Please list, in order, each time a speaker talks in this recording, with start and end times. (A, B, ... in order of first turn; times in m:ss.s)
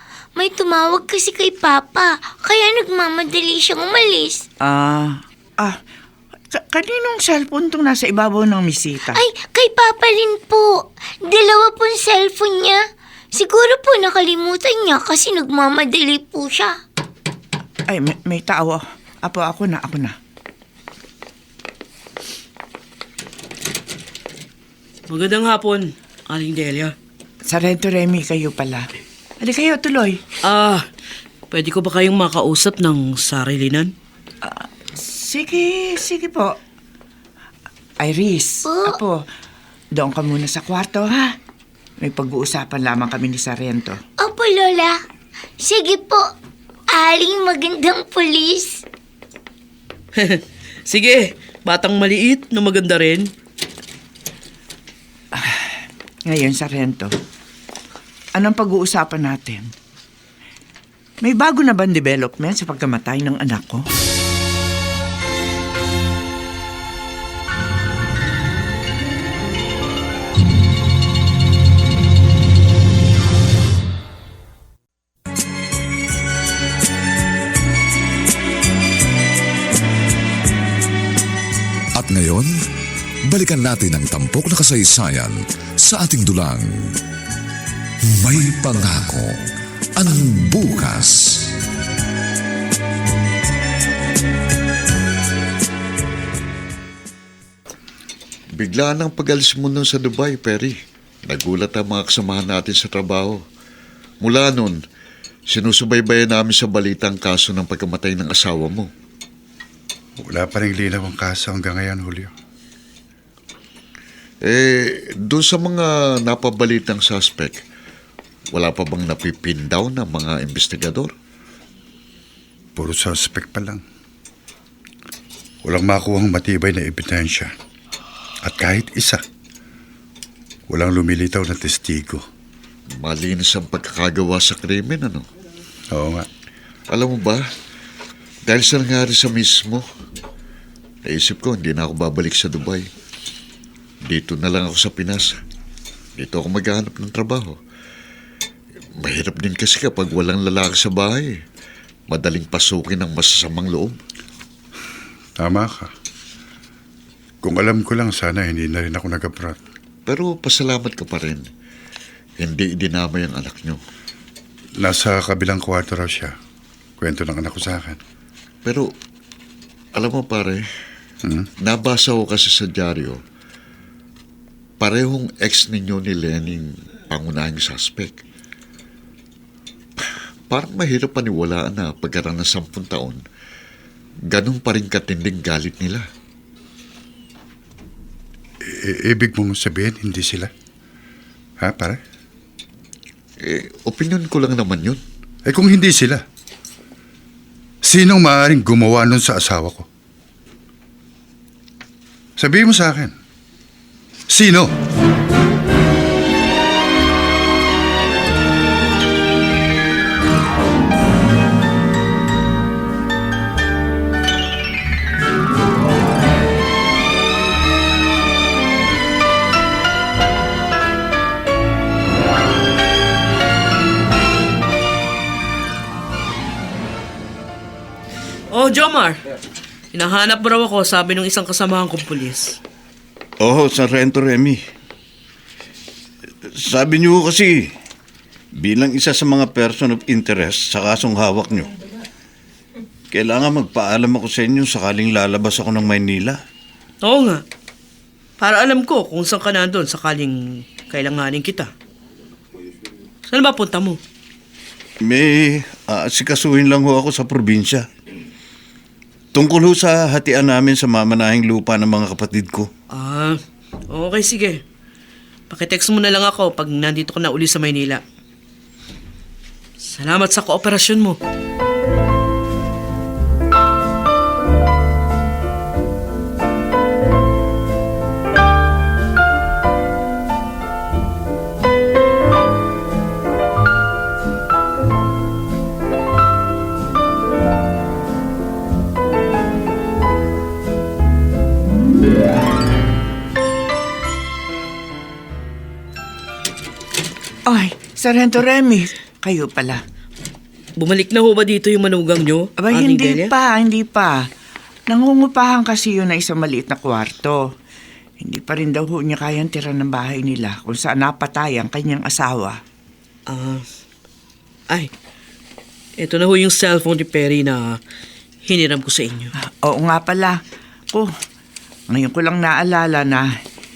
0:00.4-0:04.5 A
0:04.6-0:05.8 B
0:06.5-0:09.2 B
0:09.1-0:16.8 A
0:17.9-0:20.2 B
0:25.1-0:26.9 C
0:27.5-0:28.9 B
0:29.4-0:30.2 B
0:30.4-0:30.8 C
0:31.5-0:33.9 C
0:34.4-0:36.6 B
0:38.0-0:39.2 B
0:38.6-0:39.0 A
0:40.0-0:41.3 B
0:42.0-0:44.0 B
0:44.2-0:45.0 A
0:45.6-0:46.3 A
0:46.9-0:48.8 A
0:50.2-0:53.3 C
0:55.3-0:55.7 B
0:56.3-0:57.1 B
0:58.4-0:59.7 B
1:01.2-1:03.9 B
1:22.0-1:22.6 D
1:23.3-1:27.0 D
1:28.1-1:29.4 D
1:30.0-1:31.5 D
1:38.5-1:43.4 E
1:44.2-1:44.8 E
1:45.5-1:48.9 E
1:50.2-1:52.3 F
1:54.4-1:57.6 E
1:58.5-2:01.1 E
2:02.8-2:03.8 F
2:05.6-2:07.5 F
2:08.4-2:09.2 F
2:10.7-2:12.2 F
2:12.9-2:15.3 E
2:15.9-2:16.3 F
2:16.9-2:17.4 E
2:18.5-2:19.8 E
2:21.1-2:22.9 E
2:24.0-2:25.4 E
2:26.2-2:27.6 E
2:29.0-2:31.4 E
2:32.1-2:34.0 E
2:35.4-2:35.9 F
2:37.4-2:39.6 F
2:40.1-2:41.4 E
2:42.4-2:43.8 E
2:44.8-2:46.3 F
2:47.0-2:48.0 F
2:49.9-2:50.6 E
2:51.6-2:53.2 E
2:54.8-2:58.2 E
3:00.0-3:03.2 E
3:04.3-3:06.0 E
3:08.6-3:10.5 F
3:11.6-3:12.0 F
3:13.4-3:15.0 E
3:15.5-3:16.2 F
3:17.8-3:19.9 F
3:22.4-3:23.1 F
3:24.3-3:24.7 F
3:48.5-3:49.2 C
3:49.9-3:52.6 C
3:53.4-3:54.6 G
3:56.6-3:57.7 G
3:58.6-4:01.7 G
4:03.1-4:06.4 G
4:07.0-4:07.4 C
4:08.4-4:11.7 C
4:13.3-4:14.0 C
4:15.0-4:17.9 G
4:19.3-4:22.7 G
4:22.9-4:23.4 C
4:23.9-4:24.6 C
4:25.5-4:28.0 C
4:29.9-4:31.2 C
4:57.5-4:59.8 B
5:00.8-5:03.3 C
5:02.6-5:04.3 B
5:04.9-5:07.4 B
5:08.2-5:12.6 B
5:13.3-5:13.6 C
5:16.0-5:17.8 C
5:18.5-5:19.3 C
5:19.4-5:20.4 B
5:21.9-5:23.3 B